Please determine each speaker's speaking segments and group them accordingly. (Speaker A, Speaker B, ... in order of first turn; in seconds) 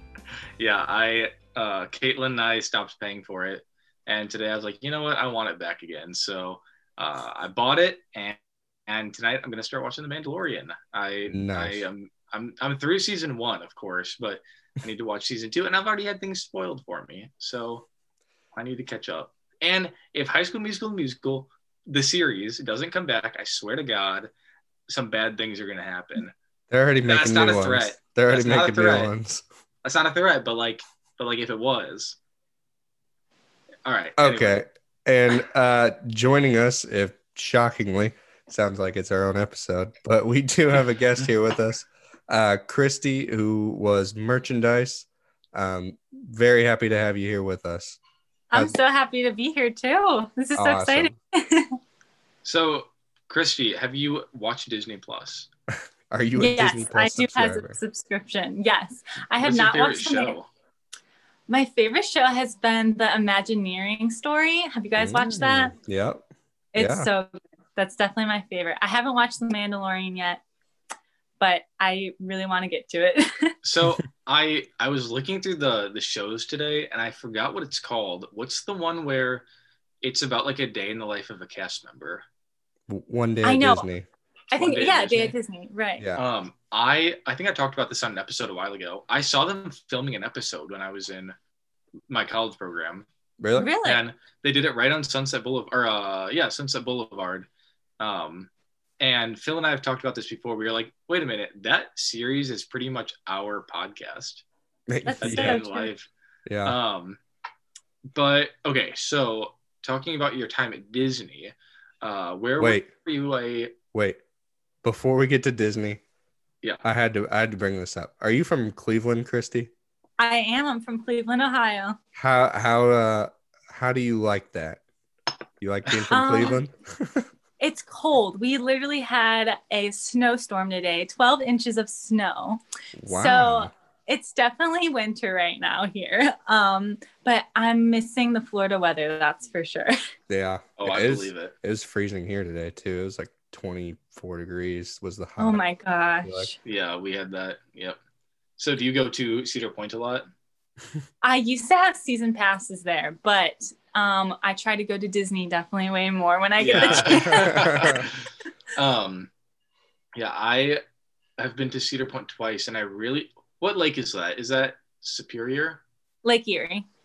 Speaker A: 0.6-17.9, 18.6-24.3, 24.9-26.3, 27.0-29.1, 29.8-32.2, 33.9-34.6, 52.4-55.5, 59.4-60.5, 73.6-79.5, 80.0-82.2, 84.5-85.3, 86.2-91.3, 92.1-93.1, 93.8-97.5, 98.0-98.5, 99.0-104.4, 105.2-106.1, 106.6-107.2, 108.1-113.7, 140.8-141.5, 146.7-148.0, 148.6-150.3, 156.6-159.3, 160.2-160.8, 161.4-165.8
Speaker B: 11.3-11.8, 26.7-29.4, 34.2-48.0, 50.5-51.1, 56.1-57.8, 65.0-67.1, 82.9-84.1, 93.4-93.7, 104.9-105.6, 106.5-106.8, 112.6-112.9, 113.9-114.2, 114.8-116.0, 116.8-119.7, 122.2-124.8, 125.6-127.3, 133.0-133.7, 140.3-145.6, 146.2-146.5, 156.7-158.1
Speaker C: 48.5-51.8, 56.4-60.4, 61.5-65.7, 66.7-70.4, 71.4-73.5, 83.4-83.9, 84.5-86.1, 93.5-94.0, 105.0-105.9, 120.2-122.0, 126.1-126.6, 127.6-139.9, 145.4-146.6, 151.2-158.1, 166.2-166.9